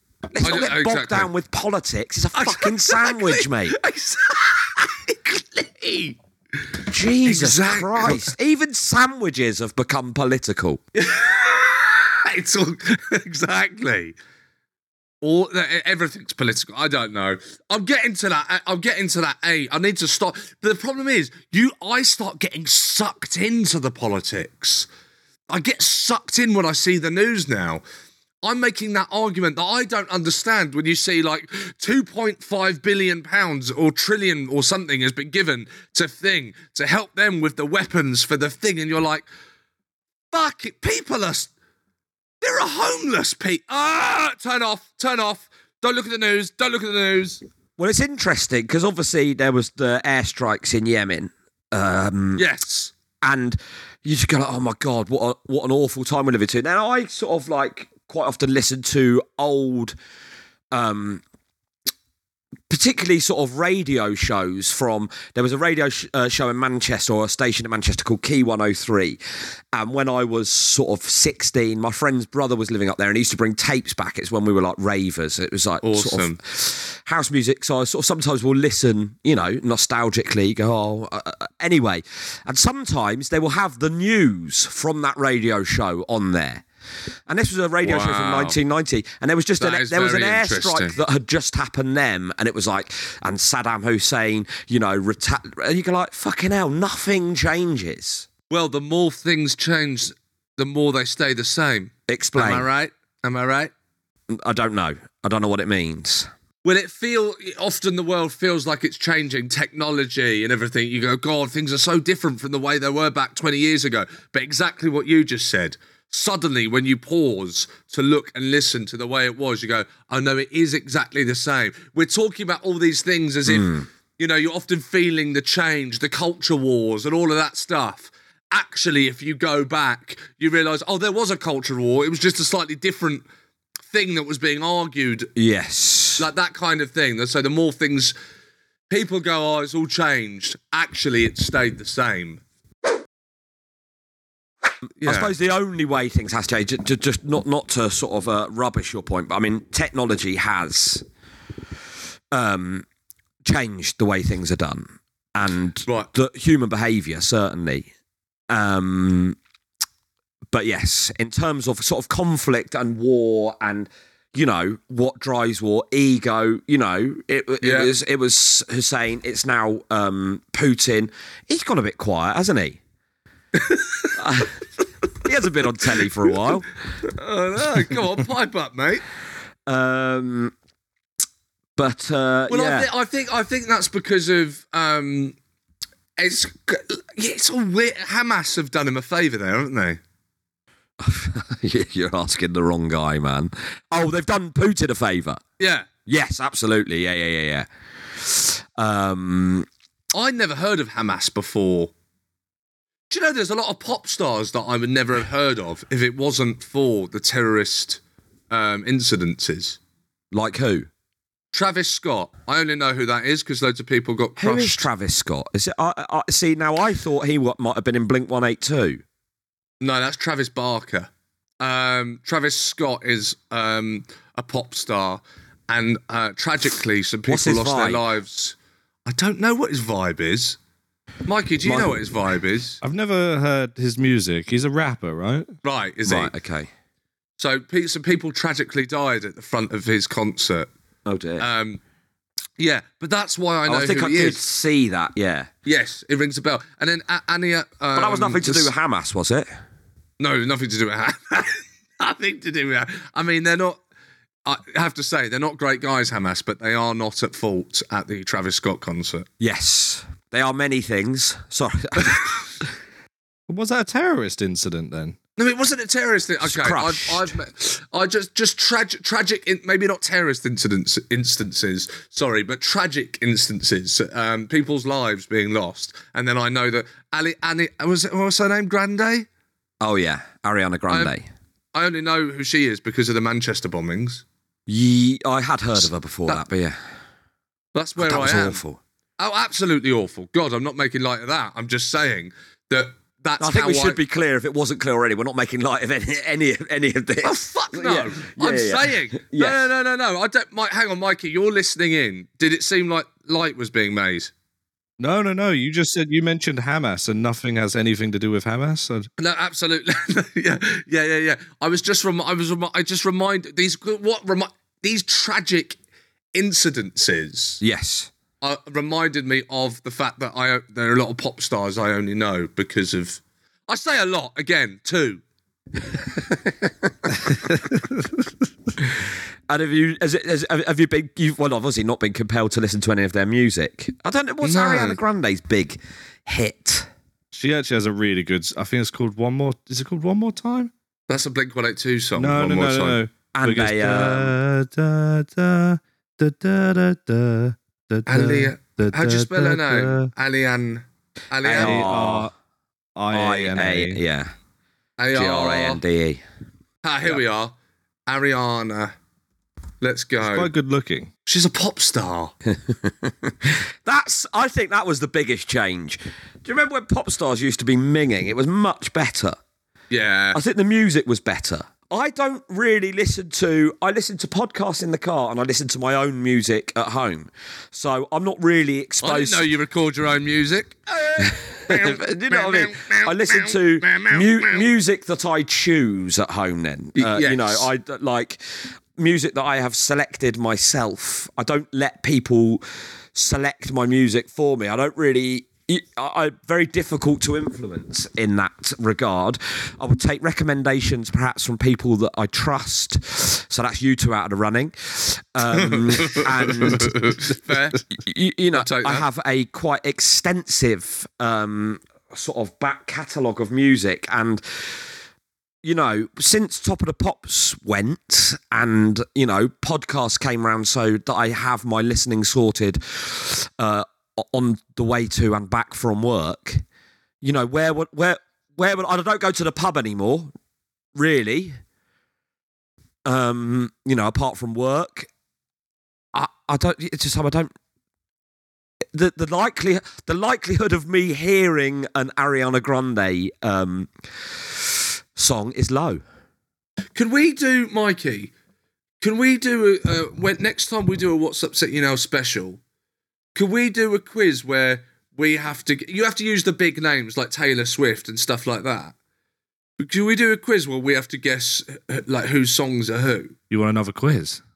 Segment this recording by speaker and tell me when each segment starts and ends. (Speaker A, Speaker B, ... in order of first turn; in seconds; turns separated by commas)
Speaker A: 0.3-3.7, Speaker B: 0.4-1.3, Speaker B: 2.3-6.2, Speaker A: 6.9-10.8, Speaker B: 7.2-8.3, Speaker B: 11.0-14.2, Speaker B: 15.2-24.9, Speaker B: 25.5-27.8, Speaker B: 28.4-39.2, Speaker B: 40.3-41.5, Speaker B: 42.4-47.4, Speaker A: 47.8-52.5, Speaker B: 52.4-52.9, Speaker A: 53.2-59.9, Speaker A: 60.7-61.2, Speaker A: 62.7-69.2, Speaker A: 69.7-86.6, Speaker B: 75.8-76.4, Speaker A: 87.3-98.3, Speaker B: 87.8-88.6, Speaker B: 89.6-91.0, Speaker B: 98.5-103.7, Speaker A: 102.1-102.7, Speaker A: 104.3-106.3, Speaker B: 106.6-133.2, Speaker A: 123.5-123.8, Speaker B: 133.9-135.3, Speaker A: 135.3-136.3, Speaker B: 136.2-138.1, Speaker B: 138.9-142.4, Speaker B: 145.0-145.3, Speaker A: 145.0-151.0, Speaker A: 152.3-152.8, Speaker A: 153.4-157.9, Speaker A: 158.5-159.4, Speaker A: 160.5-172.8, Speaker B: 167.6-167.9, Speaker B: 173.5-174.1, Speaker A: 174.2-174.5, Speaker A: 175.2-176.7, Speaker B: 177.1-179.0, Speaker A: 179.7-180.5, Speaker A: 181.8-182.9, Speaker B: 182.5-185.3, Speaker B: 186.2-190.0, Speaker A: 191.0-195.4, Speaker B: 195.6-195.9, Speaker A: 196.1-199.7, Speaker B: 200.1-201.9, Speaker B: 203.1-209.8, Speaker A: 210.3-210.9, Speaker B: 211.5-214.9, Speaker A: 214.4-219.0, Speaker B: 219.8-221.1, Speaker B: 221.6-228.6, Speaker A: 227.3-228.1, Speaker B: 229.1-230.6, Speaker B: 231.2-232.8, Speaker A: 231.6-232.0, Speaker C: 232.8-235.5, Speaker B: 235.6-236.3, Speaker A: 236.0-236.7, Speaker B: 237.4-240.7, Speaker A: 241.1-241.5, Speaker B: 241.4-241.8, Speaker B: 242.6-244.4, Speaker A: 243.7-245.5, Speaker B: 245.7-248.7, Speaker A: 247.9-249.5, Speaker B: 250.2-253.8, Speaker B: 254.4-259.3, Speaker A: 259.4-262.6, Speaker C: 263.5-265.2, Speaker B: 265.4-279.2, Speaker A: 266.4-267.3, Speaker A: 279.8-281.2, Speaker B: 280.9-281.1, Speaker B: 281.7-284.2, Speaker A: 284.7-286.8, Speaker B: 285.8-286.4, Speaker B: 287.7-288.6, Speaker A: 288.0-288.8, Speaker B: 289.2-294.0, Speaker A: 293.4-299.7, Speaker B: 297.2-304.3, Speaker C: 305.0-309.1, Speaker B: 309.2-315.8, Speaker B: 316.3-317.6, Speaker A: 317.6-318.1, Speaker B: 318.4-325.2, Speaker A: 329.5-336.9, Speaker B: 334.4-335.0, Speaker C: 337.3-340.7, Speaker B: 341.1-343.0, Speaker C: 342.1-350.1, Speaker A: 343.3-344.4, Speaker B: 348.1-351.9, Speaker A: 351.4-352.3, Speaker C: 351.6-352.3, Speaker C: 352.9-354.0, Speaker A: 353.1-354.3, Speaker B: 355.0-355.8, Speaker A: 355.1-356.2, Speaker B: 356.8-357.5, Speaker B: 358.1-358.9, Speaker B: 359.8-360.5, Speaker C: 360.2-361.1, Speaker B: 361.2-362.3, Speaker A: 362.5-369.4, Speaker B: 369.9-370.4, Speaker A: 370.3-379.5, Speaker B: 379.0-384.7, Speaker A: 381.2-392.6, Speaker B: 386.9-387.7, Speaker A: 393.1-406.9, Speaker B: 405.6-407.8, Speaker A: 407.9-414.8, Speaker B: 408.5-409.1, Speaker A: 415.6-426.6, Speaker A: 427.2-430.3, Speaker A: 430.9-431.6, Speaker A: 433.1-435.1, Speaker A: 436.1-437.5, Speaker A: 438.9-446.0, Speaker B: 446.9-448.3, Speaker B: 449.0-452.6, Speaker B: 453.3-458.9, Speaker B: 459.8-463.4, Speaker C: 463.5-464.4